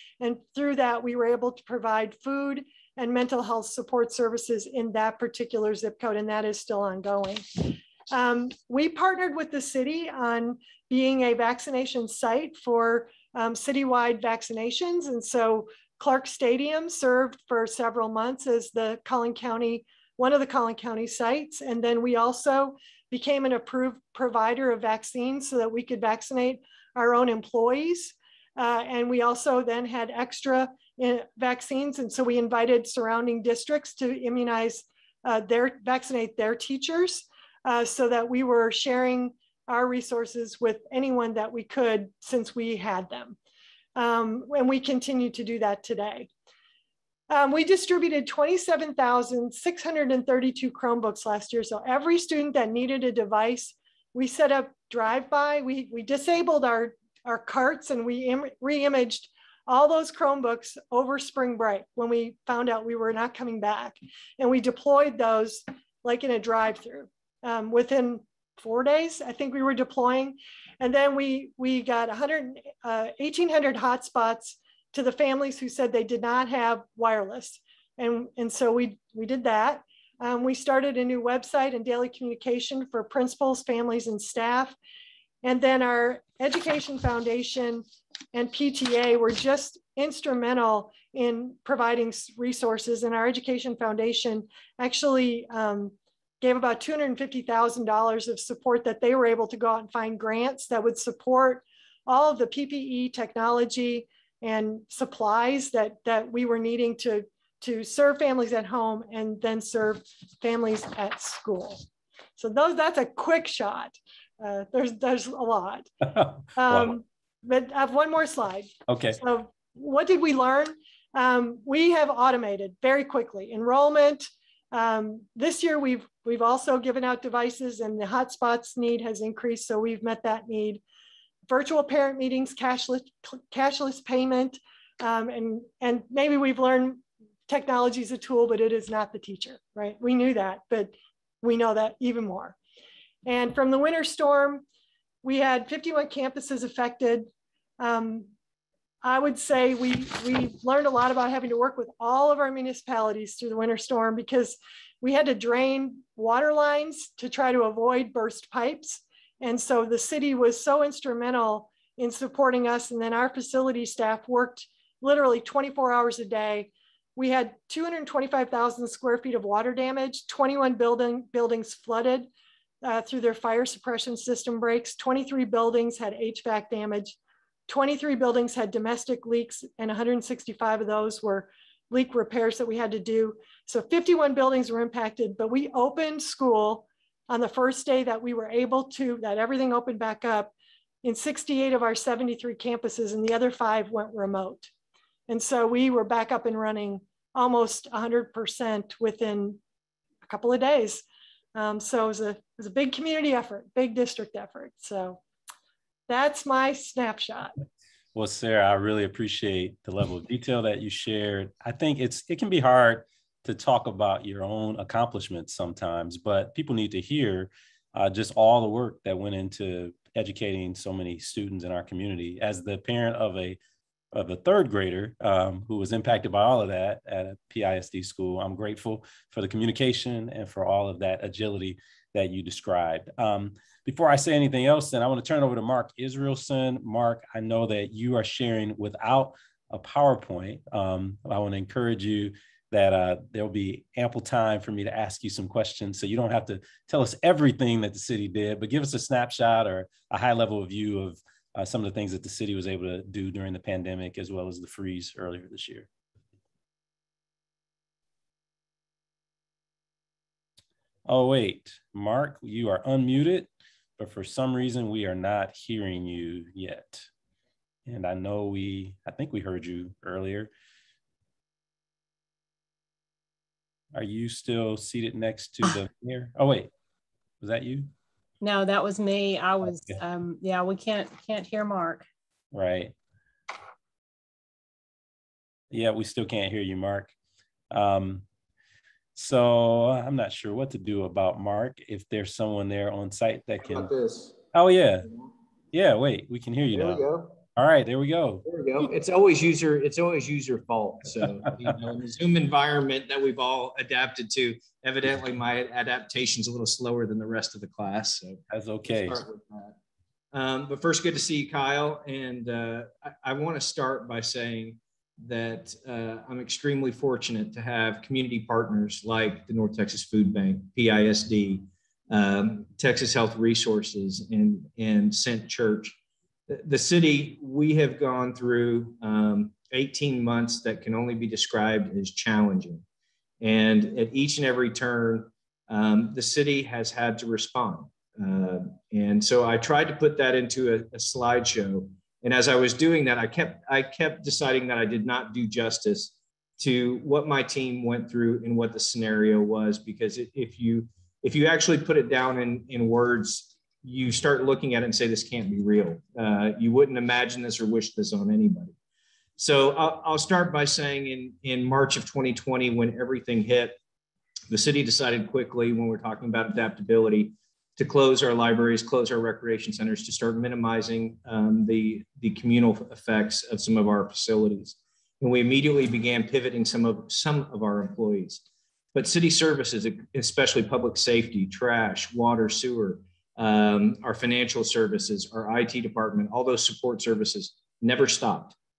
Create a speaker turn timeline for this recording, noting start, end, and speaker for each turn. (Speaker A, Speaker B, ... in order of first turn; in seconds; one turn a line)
Speaker A: 0.2-43.4
Speaker A: 44.0-46.3
Speaker A: 47.3-84.8
Speaker A: 85.4-111.8
Speaker A: 112.4-115.9
Speaker B: 116.1-116.9
Speaker A: 116.5-130.8
Speaker B: 118.9-119.2
Speaker A: 131.5-142.6
Speaker A: 143.2-144.6
Speaker A: 145.2-147.3
Speaker A: 147.8-148.3
Speaker A: 149.0-172.3
Speaker A: 172.8-177.2
Speaker A: 177.7-190.5
Speaker A: 191.0-194.7
Speaker A: 195.3-199.6
Speaker A: 200.2-201.0
Speaker A: 201.5-205.2
Speaker A: 206.1-207.5
Speaker B: 208.1-223.6
Speaker B: 224.1-255.9
Speaker B: 261.1-267.1
Speaker B: 267.9-270.5
Speaker B: 273.9-276.7
Speaker B: 277.4-277.9
Speaker C: 278.4-282.0
Speaker B: 282.5-282.9
Speaker B: 285.7-287.1
Speaker B: 287.7-288.2
Speaker B: 289.1-293.9
Speaker D: 293.6-294.4
Speaker B: 294.5-295.1
Speaker B: 295.7-297.0
Speaker D: 296.7-297.4
Speaker B: 297.6-298.4
Speaker D: 298.4-309.7
Speaker B: 308.5-309.2
Speaker D: 310.3-325.9
Speaker D: 326.5-332.8
Speaker D: 333.4-358.7
Speaker D: 359.4-363.8
Speaker D: 364.5-388.5